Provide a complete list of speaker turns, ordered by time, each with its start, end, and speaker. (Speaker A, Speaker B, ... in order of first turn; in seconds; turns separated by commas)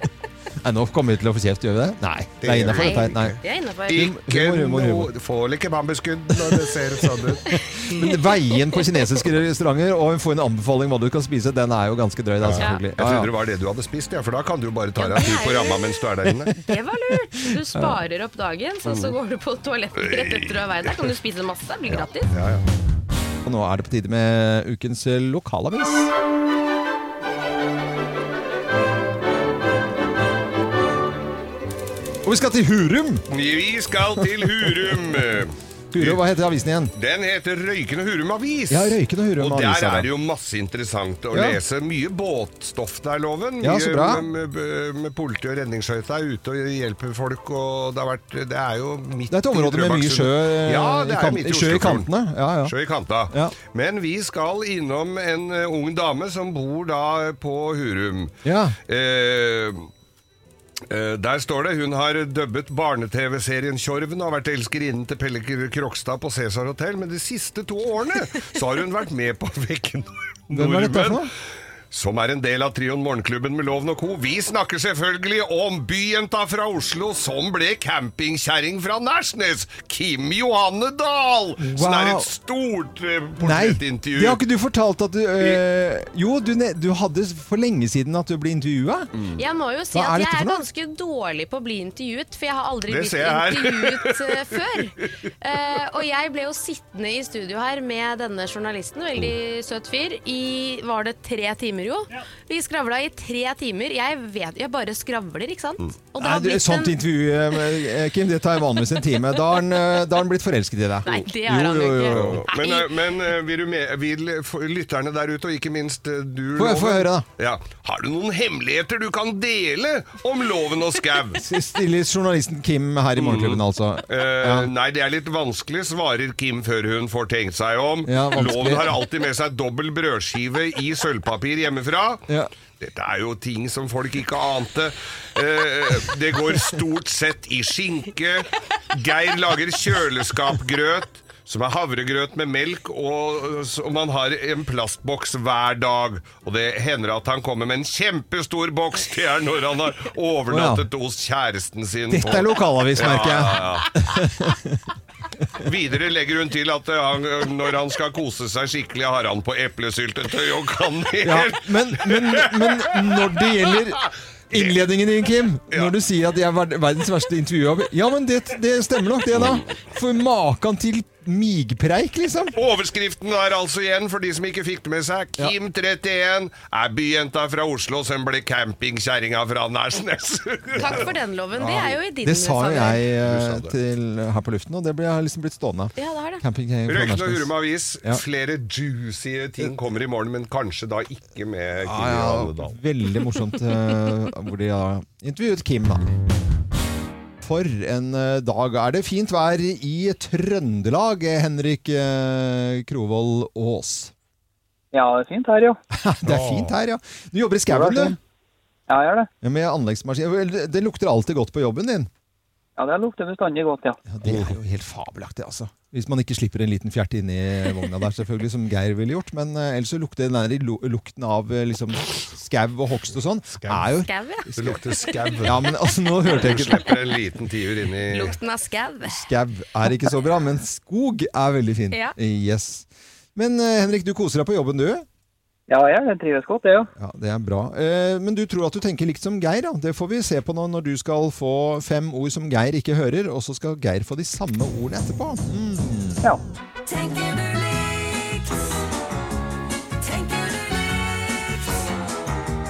Speaker A: 0.6-3.4, Speaker B: 2.4-7.5, Speaker C: 2.7-4.0, Speaker A: 3.9-5.1, Speaker A: 7.5-13.3, Speaker B: 12.4-16.5, Speaker C: 15.0-15.8, Speaker C: 16.6-22.3, Speaker B: 18.9-19.1, Speaker B: 19.9-21.1, Speaker B: 21.9-22.6, Speaker A: 23.4-26.1, Speaker A: 32.2-33.3, Speaker B: 33.3-36.2, Speaker A: 35.9-36.9, Speaker B: 36.9-52.1, Speaker A: 38.7-40.1, Speaker A: 41.3-41.6, Speaker A: 43.6-44.2, Speaker A: 49.3-52.7, Speaker B: 52.6-59.9, Speaker A: 53.3-53.5, Speaker A: 58.4-58.8, Speaker B: 60.9-71.2, Speaker A: 70.5-71.3, Speaker B: 71.9-84.4, Speaker A: 81.6-82.3, Speaker A: 83.4-89.1, Speaker B: 89.1-89.4, Speaker C: 89.4-107.0, Speaker A: 89.9-90.6, Speaker B: 92.9-94.8, Speaker A: 106.2-112.4, Speaker C: 111.0-113.0, Speaker B: 112.1-121.4, Speaker A: 116.5-117.2, Speaker A: 121.4-124.7, Speaker B: 123.2-132.2, Speaker A: 128.1-129.0, Speaker B: 132.8-153.9, Speaker A: 150.5-150.9, Speaker A: 152.1-154.8, Speaker B: 155.6-164.8, Speaker A: 161.2-172.5, Speaker B: 169.3-169.7, Speaker B: 172.5-181.1, Speaker C: 180.8-183.0, Speaker A: 181.6-188.2, Speaker B: 183.2-183.7, Speaker C: 185.9-186.4, Speaker B: 186.9-192.8, Speaker A: 191.8-196.0, Speaker A: 197.4-204.1, Speaker D: 204.9-205.8, Speaker A: 205.9-208.2, Speaker B: 206.2-206.7, Speaker D: 207.7-208.2, Speaker D: 208.9-209.3, Speaker A: 209.4-212.1, Speaker D: 212.8-214.0, Speaker A: 214.1-224.8, Speaker B: 214.2-214.5, Speaker B: 223.6-223.8, Speaker C: 224.1-225.3, Speaker B: 224.6-225.7, Speaker A: 225.4-226.9, Speaker B: 226.2-228.4, Speaker C: 228.1-229.3, Speaker A: 229.0-235.1, Speaker D: 235.7-236.9, Speaker A: 237.0-246.2, Speaker E: 246.8-249.0, Speaker E: 250.0-251.9